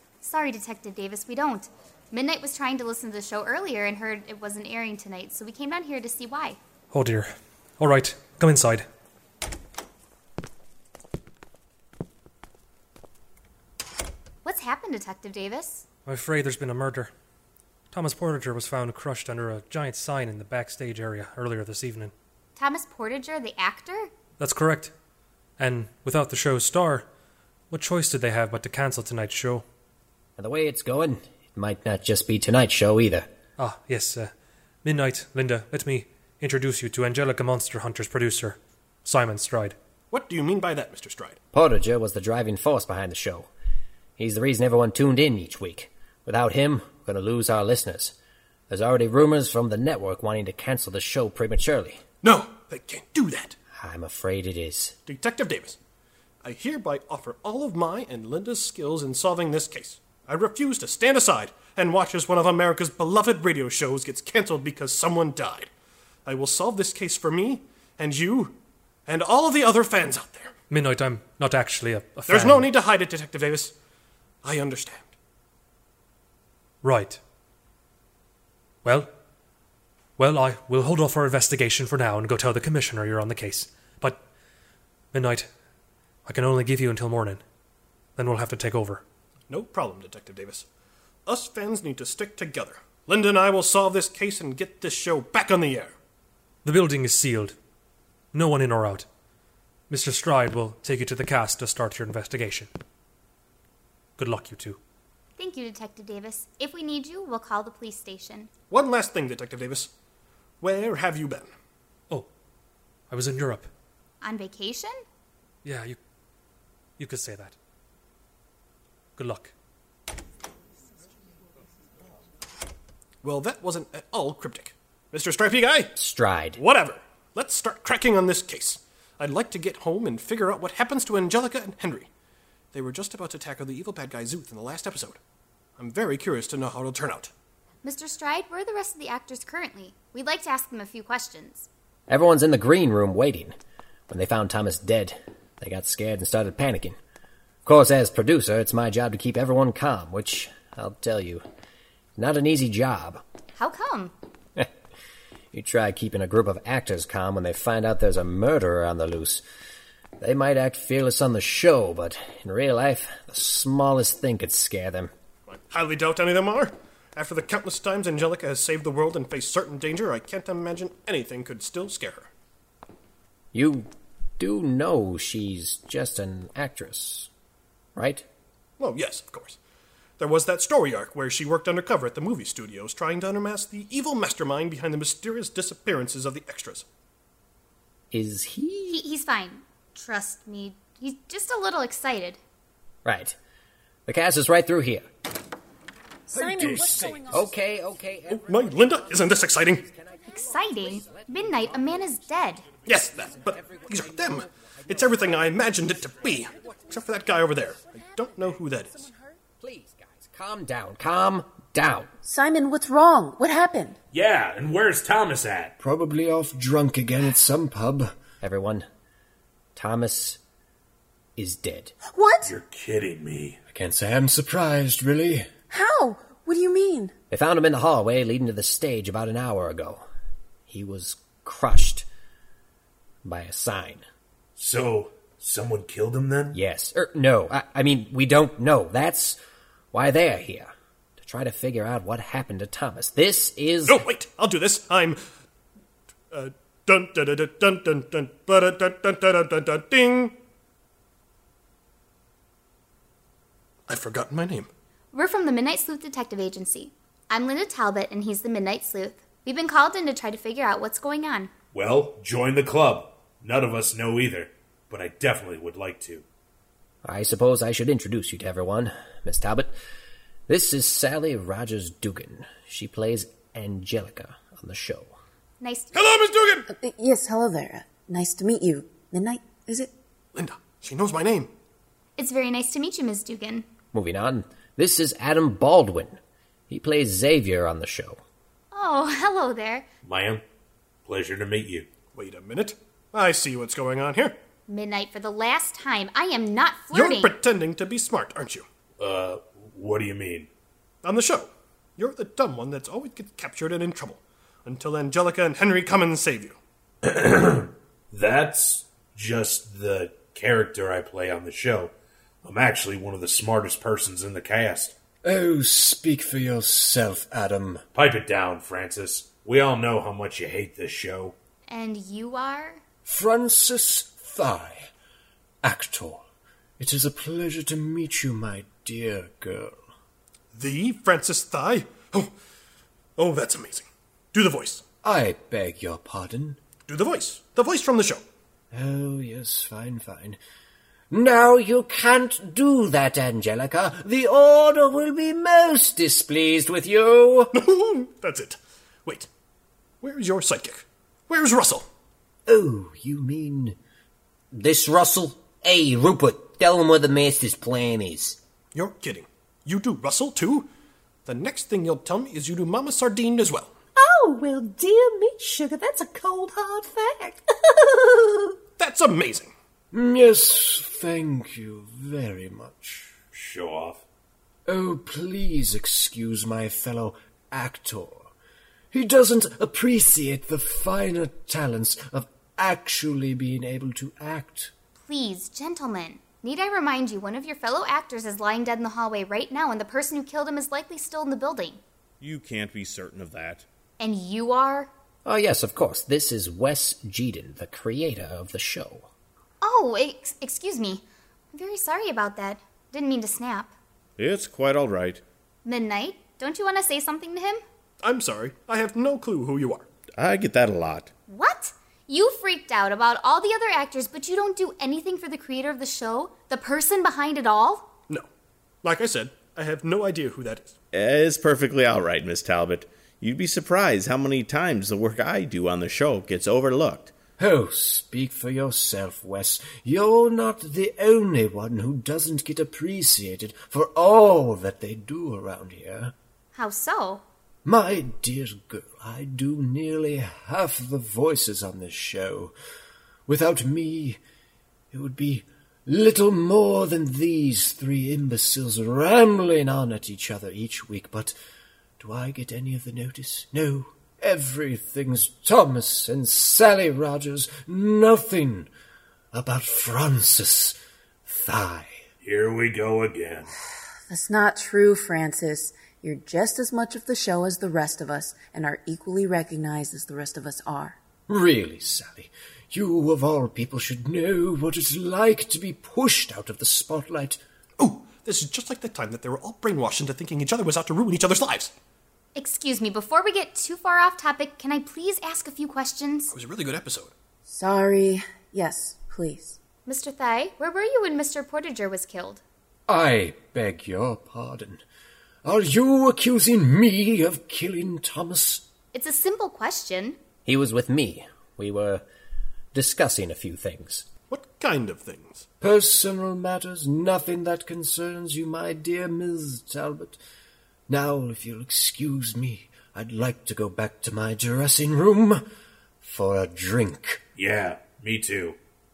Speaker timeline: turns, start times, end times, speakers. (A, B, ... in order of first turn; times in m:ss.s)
0:00.2-0:06.6 A
0:06.9-0:08.9 B
0:14.4-0:15.9 A
0:16.1-0:17.1 B
0:17.9-0:22.1 B
0:22.6-0:24.1 A
0:24.4-0:24.9 B
0:25.6-0:27.1 B
0:27.7-0:29.6 B
0:30.4-0:33.3 C
0:33.6-0:34.3 B
0:34.8-0:39.8 B
0:40.1-0:41.4 D
0:41.5-0:43.5 C
0:44.2-0:48.2 C
0:48.7-0:52.0 C
0:52.2-0:53.6 D
0:53.8-0:55.0 C
0:55.1-0:55.8 D
0:56.4-1:05.7 D
1:06.3-1:08.6 D
1:09.1-1:10.5 D
1:10.7-1:12.7 B
1:12.3-1:13.7 D
1:14.4-1:15.1 D
1:16.8-1:17.2 B
1:18.8-1:19.1 B
1:20.2-1:24.2 B
1:25.1-1:25.5 B
1:26.2-1:27.4 B
1:28.2-1:29.0 B
1:29.5-1:30.7 D
1:31.3-1:35.9 D
1:36.6-1:37.6 B
1:38.3-1:39.1 B
1:39.9-1:42.7 B
1:44.2-1:44.8 B
1:45.4-1:48.5 A
1:48.7-1:49.9 D
1:50.6-1:51.5 D
1:53.1-1:53.7 B
1:54.2-1:55.0 A
1:55.6-1:56.0 B
1:57.0-1:57.6 B
1:59.2-1:59.5 B
2:03.2-2:05.9 D
2:06.0-2:06.6 C
2:06.6-2:12.1 D
2:12.7-2:15.2 D
2:15.8-2:17.3 D
2:17.8-2:21.7 A
2:22.1-2:23.6 C
2:24.1-2:27.0 C
2:27.6-2:31.4 C
2:32.2-2:33.2 C
2:33.6-2:34.1 A
2:35.5-2:39.4 C
2:40.2-2:45.1 C
2:45.5-2:52.3 D
2:53.5-2:57.3 C
2:58.0-2:58.3 C
2:58.8-2:59.6 D
3:00.2-3:06.8 D
3:08.1-3:09.0 C
3:08.9-3:12.4 A
3:13.0-3:13.4 C
3:14.1-3:15.1 C
3:16.3-3:17.5 E
3:16.3-3:17.4 F
3:17.3-3:22.1 C
3:18.3-3:19.9 D
3:20.3-3:22.7 A
3:22.9-3:29.1 D
3:23.3-3:27.0 C
3:29.6-3:32.1 C
3:32.2-3:34.0 E
3:34.1-3:35.7 G
3:35.8-3:38.2 F
3:38.4-3:38.9 C
3:39.8-3:40.4 C
3:41.4-3:42.0 C
3:42.1-3:42.5 E
3:42.4-3:43.6 G
3:43.7-3:45.5 F
3:45.7-3:47.1 E
3:47.3-3:50.0 C
3:50.7-3:52.1 C
3:53.2-3:54.0 C
3:54.6-3:56.6 G
3:56.5-3:59.4 C
3:59.9-4:04.1 C
4:03.9-4:05.2 D
4:06.3-4:10.4 D
4:13.9-4:14.7 D
4:15.1-4:21.5 A
4:21.7-4:26.2 G
4:27.0-4:29.7 C
4:30.5-4:35.2 C
4:35.6-4:36.0 A
4:35.9-4:36.7 D
4:36.7-4:39.9 E
4:40.4-4:41.5 D
4:42.2-4:43.7 A
4:43.9-4:46.2 C
4:46.7-4:48.2 C
4:48.7-4:49.9 A
4:50.0-4:50.4 G
4:51.0-4:51.9 G
4:52.1-4:54.4 D
4:54.7-4:57.4 A
4:56.9-4:58.6 D
4:59.0-5:00.5 G
5:01.0-5:06.6 D
5:07.0-5:11.9 G
5:12.4-5:14.9 G
5:15.2-5:17.8 F
5:18.0-5:21.4 G
5:21.7-5:22.8 A
5:23.1-5:24.9 F
5:25.6-5:26.2 F
5:26.8-5:29.9 F
5:30.5-5:32.3 D
5:33.2-5:34.8 D
5:35.0-5:36.6 F
5:36.9-5:38.2 D
5:38.7-5:40.4 F
5:41.1-5:46.3 F
5:46.3-5:47.4 C
5:47.5-5:49.3 D
5:50.0-5:51.9 D
5:52.5-5:53.8 F
5:54.5-5:58.4 C
5:58.7-6:00.7 D
6:01.3-6:03.7 D
6:04.0-6:08.6 H
6:08.8-6:09.5 D
6:09.9-6:13.1 F
6:13.3-6:14.0 G
6:14.7-6:18.3 F
6:18.9-6:24.7 F
6:25.0-6:31.8 A
6:32.2-6:33.7 I
6:34.0-6:34.9 A
6:35.2-6:39.1 C
6:39.6-6:43.7 A
6:44.2-6:45.2 I
6:45.6-6:47.6 A
6:48.0-6:49.9 D
6:50.2-6:51.1 I
6:51.3-6:57.9 A
6:58.8-7:00.7 D
7:00.9-7:07.2 I
7:07.4-7:16.1 F
7:16.5-7:17.2 A
7:17.6-7:22.5 F
7:23.3-7:24.2 F
7:24.9-7:31.4 F
7:32.0-7:38.7 F
7:39.3-7:42.0 F
7:42.2-7:43.5 G
7:44.1-7:51.0 E
7:51.3-7:57.4 F
7:57.8-8:01.7 D
8:02.4-8:06.3 A
8:06.3-8:07.1 D
8:07.5-8:09.6 E
8:09.9-8:12.4 A
8:12.9-8:14.8 F
8:15.4-8:18.6 F
8:18.9-8:20.2 A
8:20.4-8:22.0 C
8:22.7-8:24.1 C
8:24.3-8:25.4 D
8:25.6-8:30.2 F
8:30.9-8:35.4 F
8:36.0-8:37.2 F
8:37.4-8:38.6 G